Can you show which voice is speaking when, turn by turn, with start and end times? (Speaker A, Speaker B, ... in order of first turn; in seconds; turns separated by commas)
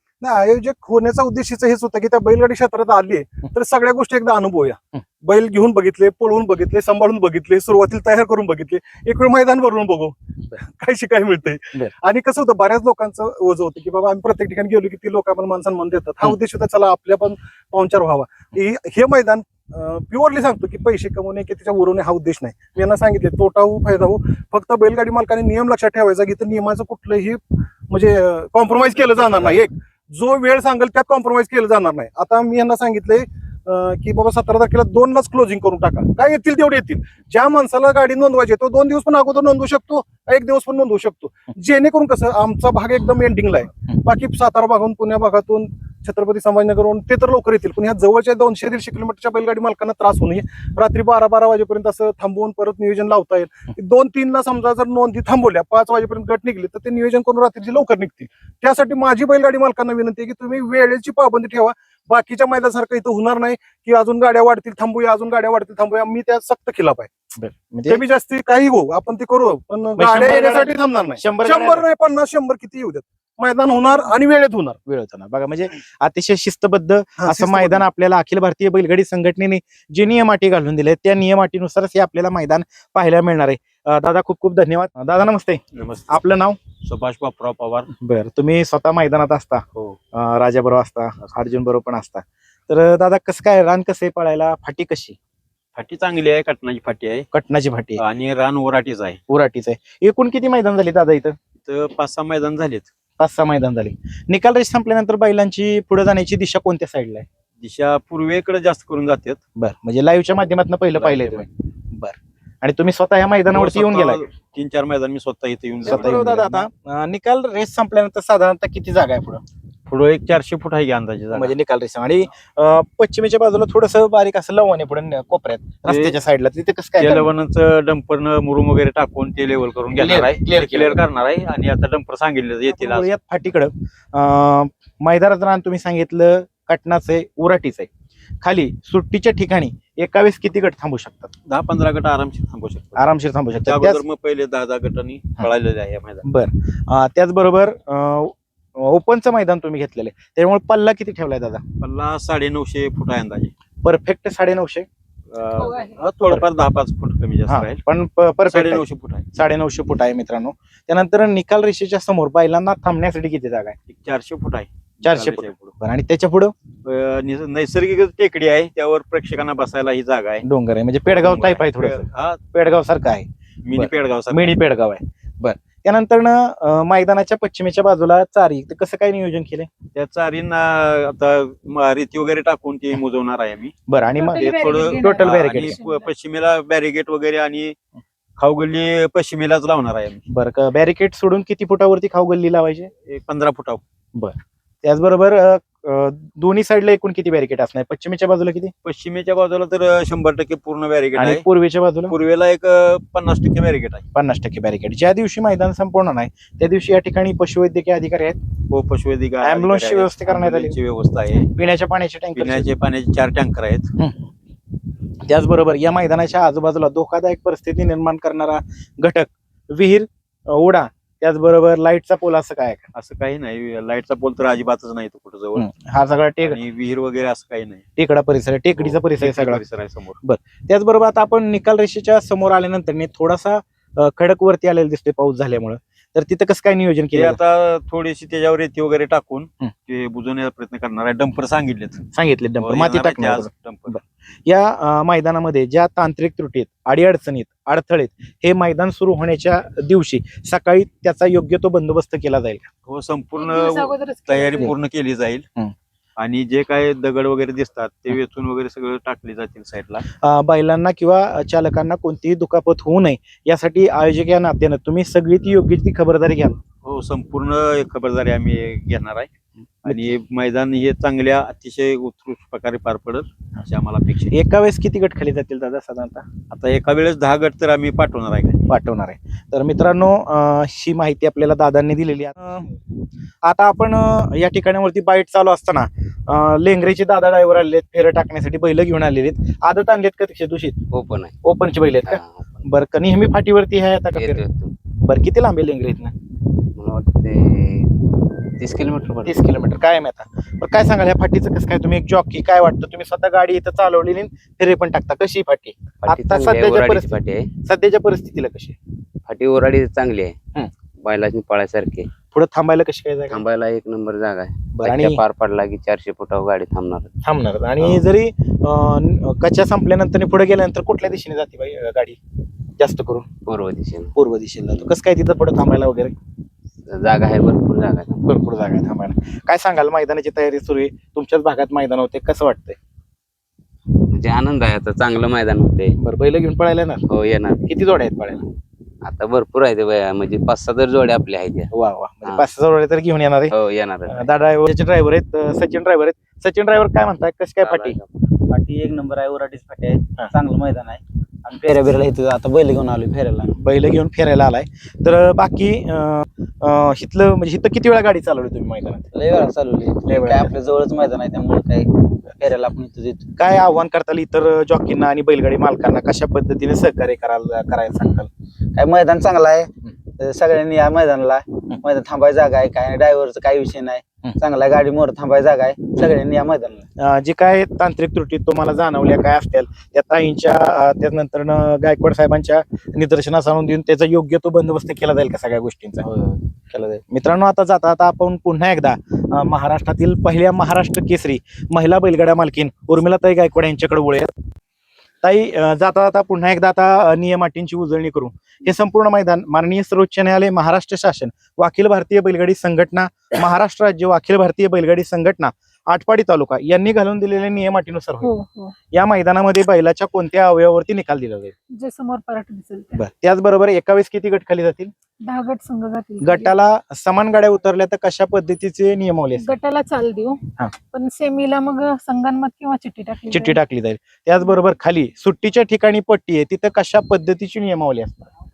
Speaker A: 0.2-67.1, Speaker B: 67.3-68.0, Speaker A: 67.9-74.8, Speaker B: 70.0-71.8, Speaker B: 74.8-86.6, Speaker A: 77.2-77.8, Speaker C: 85.7-86.2, Speaker C: 86.8-87.9, Speaker B: 87.9-95.2, Speaker C: 95.7-97.3, Speaker B: 97.3-98.0, Speaker C: 98.0-99.2, Speaker B: 99.3-101.4, Speaker C: 101.6-102.9, Speaker B: 103.2-107.3, Speaker C: 107.6-109.4, Speaker B: 109.5-114.2, Speaker C: 110.9-111.4, Speaker C: 113.5-116.7, Speaker B: 115.8-119.4, Speaker C: 119.9-121.5, Speaker B: 121.3-127.3, Speaker C: 125.8-126.2, Speaker C: 127.0-133.1, Speaker B: 129.9-131.0, Speaker B: 132.7-137.9, Speaker B: 138.4-141.3, Speaker C: 141.4-143.1, Speaker B: 142.9-144.0, Speaker C: 143.6-146.2, Speaker B: 146.2-151.6, Speaker C: 151.8-153.5, Speaker B: 153.8-154.9, Speaker C: 155.3-157.8, Speaker D: 155.6-156.0, Speaker B: 157.5-163.8, Speaker C: 158.5-159.3, Speaker C: 163.9-165.7, Speaker B: 165.0-166.5, Speaker C: 166.8-170.4, Speaker B: 170.4-179.7, Speaker C: 171.1-172.4, Speaker C: 173.6-174.6, Speaker C: 179.9-183.7, Speaker B: 183.9-185.8, Speaker D: 184.1-186.1, Speaker C: 184.4-187.8, Speaker C: 188.4-190.2, Speaker B: 190.3-192.9, Speaker C: 193.1-193.8, Speaker B: 194.1-198.7, Speaker C: 198.8-201.4, Speaker B: 201.2-202.1, Speaker C: 202.1-204.1, Speaker B: 204.1-208.4, Speaker C: 208.7-211.5, Speaker B: 209.4-210.7, Speaker B: 211.5-212.7, Speaker C: 212.3-213.9, Speaker B: 214.0-214.2, Speaker B: 215.2-222.9, Speaker C: 222.9-225.7, Speaker B: 225.6-226.6, Speaker C: 226.4-227.8, Speaker B: 228.0-229.6, Speaker C: 228.8-230.2, Speaker B: 230.2-237.4, Speaker C: 237.1-242.0, Speaker B: 242.1-252.7, Speaker C: 242.6-243.9, Speaker C: 252.9-255.4, Speaker D: 253.3-254.7, Speaker C: 256.2-260.0, Speaker B: 260.2-266.6, Speaker C: 266.8-269.3, Speaker C: 269.8-274.3, Speaker B: 269.9-270.1, Speaker B: 274.3-276.3, Speaker C: 276.5-278.6, Speaker B: 278.7-282.8, Speaker B: 283.4-290.8, Speaker E: 290.9-291.4, Speaker B: 291.4-294.4, Speaker E: 292.0-292.7, Speaker E: 294.1-294.7, Speaker B: 295.0-296.1, Speaker E: 296.8-298.0, Speaker E: 298.6-299.4, Speaker B: 299.2-308.8, Speaker E: 306.0-307.5, Speaker E: 309.3-310.4, Speaker E: 311.0-312.1, Speaker B: 312.3-313.4, Speaker E: 313.3-317.1, Speaker B: 314.7-315.2, Speaker B: 317.2-322.2, Speaker B: 322.8-323.3, Speaker E: 323.4-324.1, Speaker B: 324.1-326.1, Speaker E: 326.9-328.2, Speaker B: 328.2-332.8, Speaker E: 334.1-335.9, Speaker B: 336.0-337.0, Speaker E: 337.1-337.7, Speaker B: 337.7-338.4, Speaker E: 339.0-341.7, Speaker B: 341.7-343.5, Speaker E: 343.5-344.3, Speaker B: 344.1-348.0, Speaker E: 347.6-348.0, Speaker F: 348.5-353.5, Speaker B: 353.6-359.1, Speaker F: 359.1-363.3, Speaker B: 360.0-360.5, Speaker B: 363.4-368.3, Speaker F: 368.7-376.9, Speaker B: 377.0-386.1, Speaker F: 386.0-387.0, Speaker B: 387.1-394.3, Speaker B: 395.2-408.3, Speaker D: 408.2-408.7, Speaker B: 408.9-411.5, Speaker D: 411.7-413.0, Speaker B: 412.9-414.9, Speaker D: 415.2-416.5, Speaker B: 416.2-419.5, Speaker D: 419.3-420.4, Speaker D: 420.9-423.6, Speaker B: 423.3-428.3